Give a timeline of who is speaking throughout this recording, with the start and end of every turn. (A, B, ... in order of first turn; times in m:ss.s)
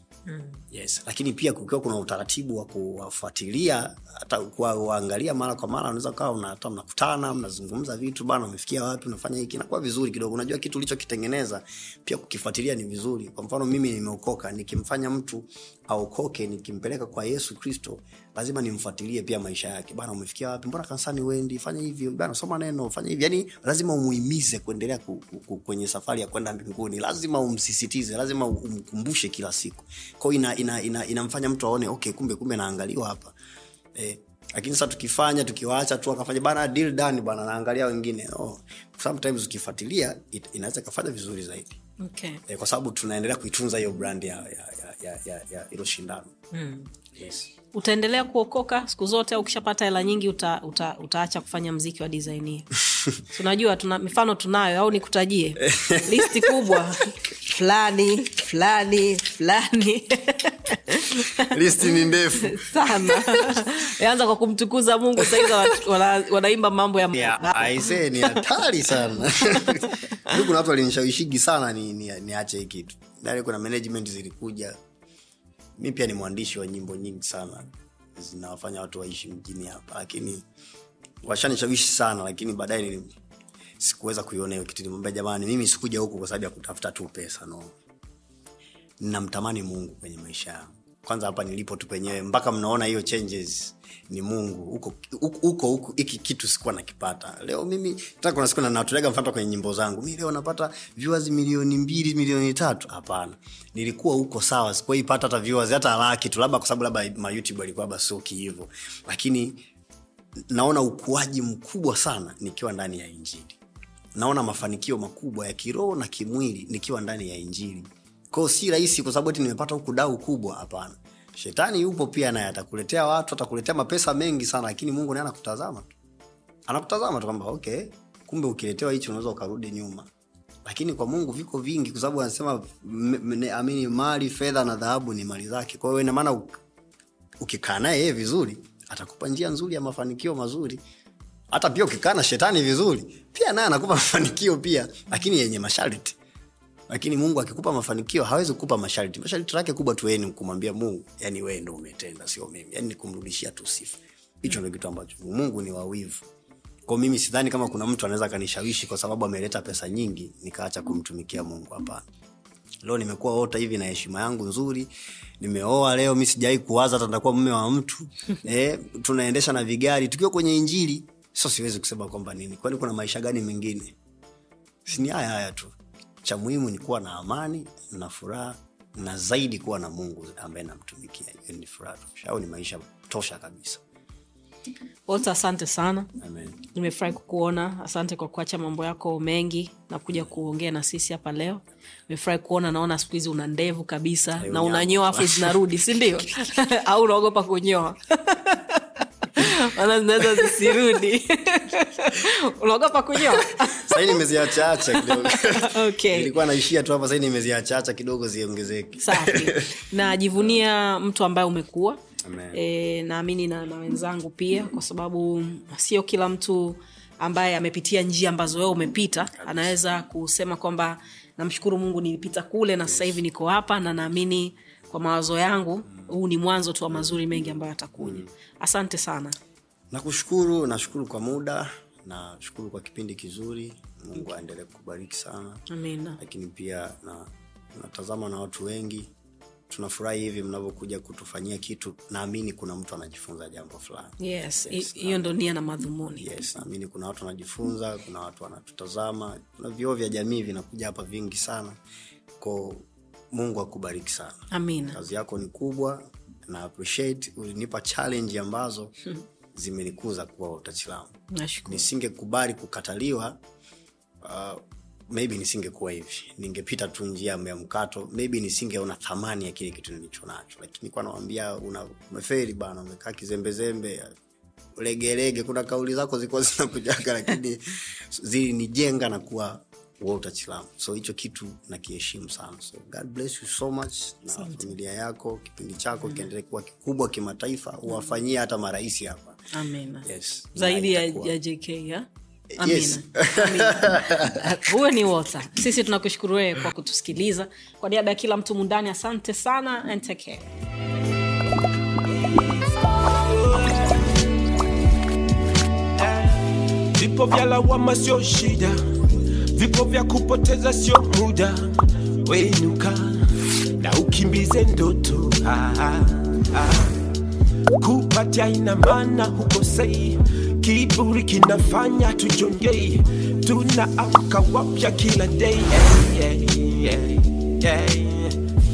0:00.3-0:00.6 A
0:00.7-0:33.3 B
0:33.9-0:41.8 B
0:42.0-0:42.4 A
0:42.5-0:46.3 B
0:46.5-0:46.9 A
0:47.1-0:47.5 B
0:47.7-1:08.4 A
0:55.6-0:56.8 B
1:01.4-1:03.7 B
1:05.2-1:05.7 B
1:07.1-1:14.8 B
1:09.6-1:10.4 A
1:15.8-1:20.4 B
1:21.2-1:23.1 B
1:23.8-1:27.8 B
1:29.0-1:49.7 B
1:50.5-1:53.6 B
1:54.2-2:05.9 B
2:06.7-2:10.1 B
2:10.6-2:16.6 B
2:17.4-2:20.8 B
2:21.5-2:26.2 B
2:26.9-2:36.3 B
2:36.9-2:42.0 B
2:42.8-2:54.0 B
2:54.8-3:03.8 B
3:05.1-3:06.1 A
3:06.2-3:06.6 B
3:06.7-3:26.4 A
3:14.4-3:15.7 B
3:23.2-3:29.7 B
3:29.0-3:32.0 A
3:32.2-3:32.6 B
3:32.5-3:49.4 A
3:39.3-3:39.8 B
3:42.9-3:43.2 B
3:46.9-3:48.3 B
3:49.9-3:55.6 B
3:55.7-3:56.2 A
3:56.2-3:59.1 B
3:59.7-4:05.5 B
4:04.2-4:06.3 A
4:06.2-4:11.8 B
4:12.4-4:19.0 B
4:14.5-4:15.0 A
4:19.5-4:21.1 B
4:21.3-4:21.8 A
4:21.7-4:23.4 B
4:24.2-4:34.1 B
4:34.8-4:49.4 B
4:44.4-4:44.7 A
4:46.0-4:46.3 A
4:49.5-5:00.5 A
4:50.0-4:51.3 B
4:52.5-4:54.6 B
5:02.2-5:04.3 C
5:06.0-5:17.1 C
5:17.8-5:28.4 C